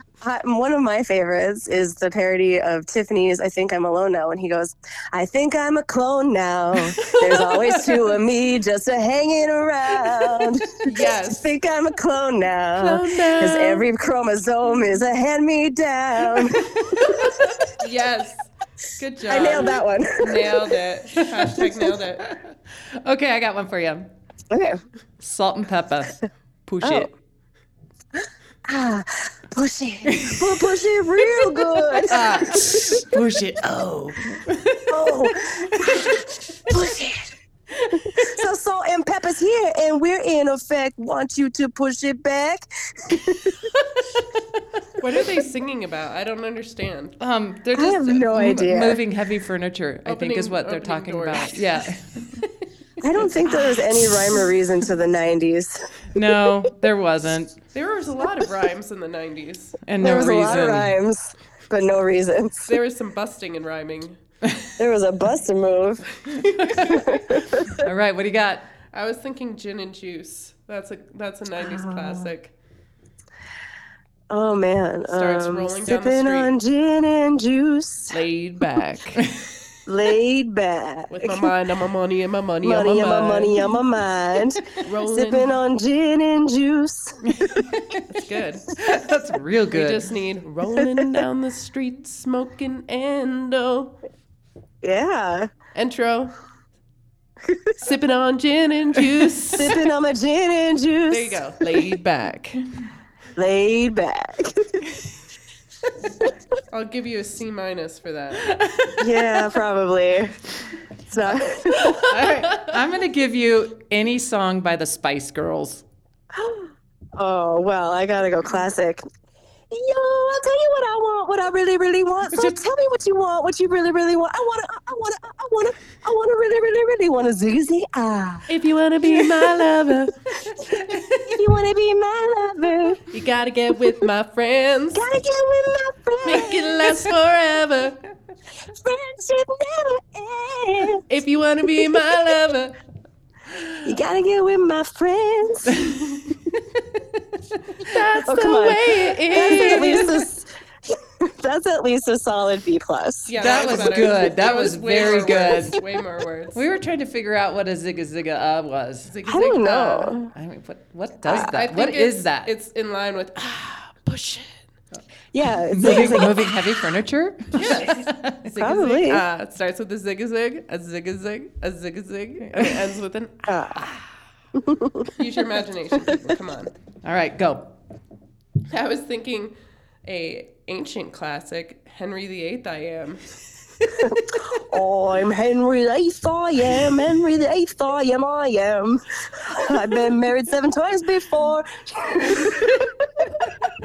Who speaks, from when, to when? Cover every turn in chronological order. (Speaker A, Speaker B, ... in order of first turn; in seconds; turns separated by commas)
Speaker A: 0.2-17.3, Speaker B: 10.8-11.5, Speaker B: 12.8-13.9, Speaker B: 17.7-22.3, Speaker A: 19.2-20.8, Speaker C: 22.2-24.1, Speaker A: 24.5-24.8, Speaker C: 25.2-27.1, Speaker A: 26.8-27.1, Speaker A: 28.7-33.0, Speaker C: 30.1-30.7, Speaker C: 32.0-36.2, Speaker A: 34.9-37.3, Speaker C: 37.9-38.3, Speaker A: 37.9-43.7, Speaker B: 45.0-47.2, Speaker C: 47.2-52.5, Speaker A: 47.7-49.0, Speaker B: 50.0-51.9, Speaker A: 53.0-55.9, Speaker C: 53.4-54.3, Speaker C: 56.1-57.6, Speaker B: 57.7-59.8, Speaker C: 59.9-61.0, Speaker A: 60.0-62.7, Speaker B: 62.7-64.2, Speaker A: 64.8-66.1, Speaker C: 66.3-68.7, Speaker B: 66.5-67.1, Speaker A: 66.7-67.8, Speaker B: 68.9-72.5, Speaker A: 71.6-72.3, Speaker A: 74.3-78.2, Speaker B: 75.1-76.5, Speaker B: 78.1-79.2, Speaker A: 79.9-81.5, Speaker B: 81.1-83.6, Speaker A: 82.6-87.6, Speaker B: 84.8-85.5, Speaker C: 87.3-88.0, Speaker B: 88.1-88.7, Speaker C: 88.7-90.0, Speaker B: 89.7-94.0, Speaker A: 94.8-95.5, Speaker B: 95.7-96.3, Speaker A: 97.4-97.8, Speaker B: 97.8-99.8, Speaker A: 99.5-101.8, Speaker B: 101.1-102.6, Speaker A: 103.3-104.8, Speaker B: 106.7-108.6, Speaker A: 109.0-110.3, Speaker A: 111.1-112.1, Speaker B: 112.1-112.7, Speaker C: 112.1-115.8, Speaker A: 116.3-119.0, Speaker A: 119.7-128.5, Speaker B: 128.5-130.2, Speaker A: 129.1-129.4, Speaker C: 130.7-131.4, Speaker A: 131.1-133.0, Speaker B: 133.1-135.1, Speaker A: 134.9-137.0, Speaker B: 136.2-138.0, Speaker A: 138.7-141.0, Speaker B: 141.1-142.8, Speaker A: 143.8-146.0, Speaker B: 147.8-150.3, Speaker A: 148.2-154.2, Speaker B: 153.3-156.6, Speaker C: 153.4-155.8, Speaker C: 156.5-159.1, Speaker B: 159.1-160.3, Speaker A: 159.3-160.3, Speaker C: 160.3-162.5, Speaker B: 161.3-164.6, Speaker A: 165.3-166.6, Speaker C: 165.7-168.5, Speaker B: 167.5-173.5, Speaker A: 168.6-169.2, Speaker A: 173.4-173.9, Speaker A: 174.5-175.1, Speaker B: 175.2-176.7, Speaker C: 177.0-177.7, Speaker B: 178.7-179.5, Speaker B: 180.0-184.2, Speaker A: 184.0-193.7